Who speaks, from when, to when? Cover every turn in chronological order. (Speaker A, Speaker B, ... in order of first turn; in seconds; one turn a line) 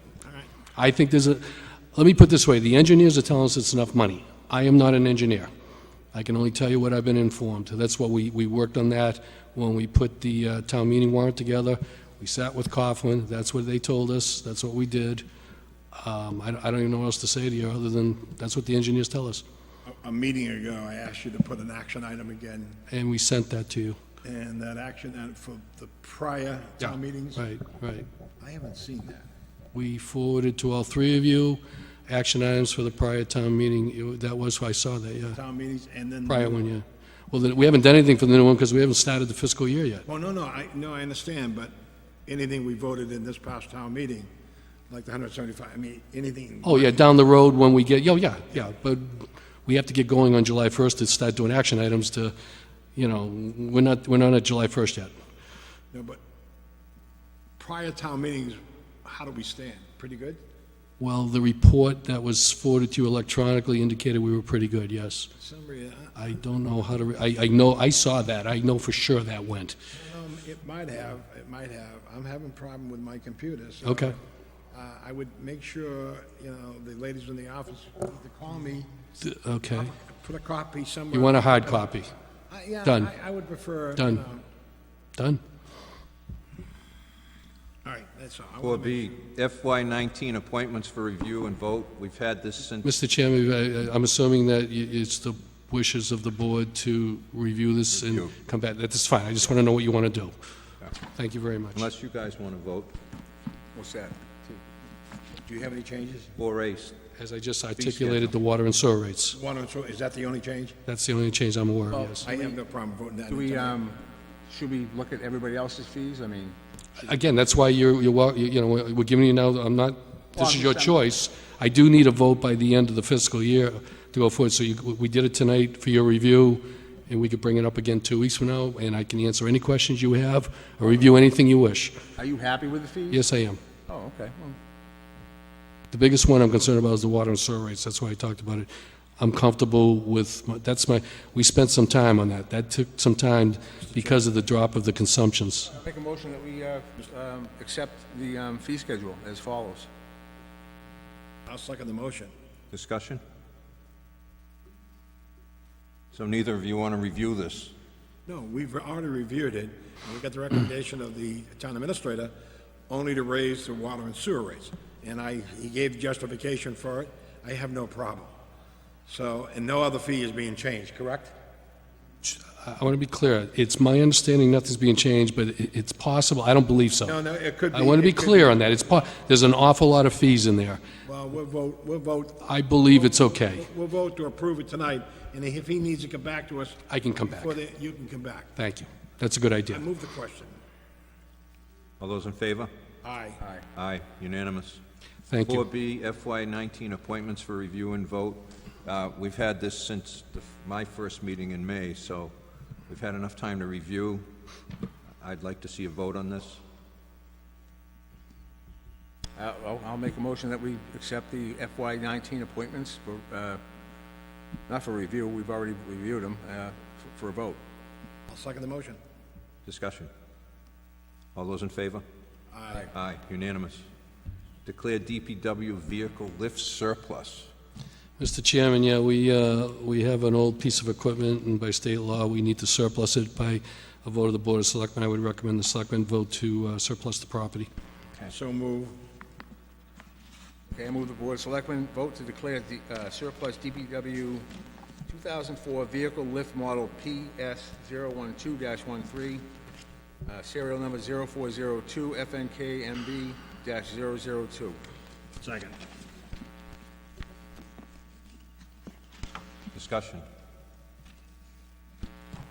Speaker A: 0.2-0.5
Speaker B: 0.7-5.5
Speaker B: 6.1-15.2
Speaker B: 15.9-19.4
Speaker A: 19.9-22.8
Speaker B: 22.9-24.0
Speaker A: 24.2-27.4
Speaker B: 26.8-28.1
Speaker A: 28.4-29.2
Speaker B: 29.7-35.4
Speaker A: 35.3-36.6
Speaker B: 36.2-40.0
Speaker A: 40.0-41.7
Speaker A: 42.2-44.3
Speaker A: 44.9-47.1
Speaker B: 46.6-52.3
Speaker B: 53.0-55.1
Speaker A: 55.9-56.2
Speaker A: 57.6-60.4
Speaker B: 61.0-65.3
Speaker A: 65.3-66.2
Speaker B: 66.2-69.8
Speaker A: 69.9-74.2
Speaker B: 73.8-74.1
Speaker A: 74.7-78.9
Speaker B: 79.2-79.9
Speaker A: 79.7-81.9
Speaker B: 81.1-82.1
Speaker A: 82.5-84.4
Speaker B: 82.8-83.1
Speaker B: 84.0-84.2
Speaker A: 87.8-89.2
Speaker C: 88.6-92.9
Speaker B: 92.8-100.3
Speaker C: 97.9-98.3
Speaker B: 101.0-101.8
Speaker C: 101.7-103.0
Speaker D: 103.7-104.6
Speaker A: 105.5-106.3
Speaker C: 106.3-107.0
Speaker B: 107.2-109.4
Speaker A: 107.8-108.3
Speaker A: 109.3-110.8
Speaker B: 110.9-112.3
Speaker D: 111.9-112.5
Speaker A: 112.2-113.8
Speaker D: 113.3-117.0
Speaker B: 117.0-131.9
Speaker D: 120.3-121.0
Speaker D: 132.2-133.2
Speaker B: 133.1-133.6
Speaker D: 133.9-134.6
Speaker B: 135.9-145.7
Speaker D: 145.7-149.9
Speaker A: 151.4-152.3
Speaker C: 152.7-153.2
Speaker C: 156.1-157.7
Speaker A: 158.3-162.3
Speaker A: 162.9-168.3
Speaker A: 169.1-171.3
Speaker B: 172.2-177.2
Speaker A: 177.0-178.7
Speaker B: 177.7-180.8
Speaker A: 181.0-188.5
Speaker B: 182.4-183.7
Speaker B: 186.9-187.6
Speaker B: 188.6-189.8
Speaker A: 189.7-190.5
Speaker C: 192.0-192.7
Speaker A: 193.0-193.4
Speaker C: 193.7-194.8
Speaker B: 195.3-195.7
Speaker C: 195.4-202.3
Speaker C: 202.9-204.2
Speaker C: 205.2-206.6
Speaker D: 209.3-213.6
Speaker D: 214.7-217.6
Speaker A: 218.3-219.0
Speaker C: 219.6-220.1
Speaker C: 221.3-222.0
Speaker A: 222.5-222.9
Speaker C: 222.9-223.8
Speaker C: 224.6-227.5
Speaker B: 228.2-237.7
Speaker A: 238.3-238.9
Speaker D: 240.7-244.5
Speaker D: 245.1-249.4
Speaker D: 250.2-254.8
Speaker A: 255.4-255.8
Speaker C: 259.7-260.2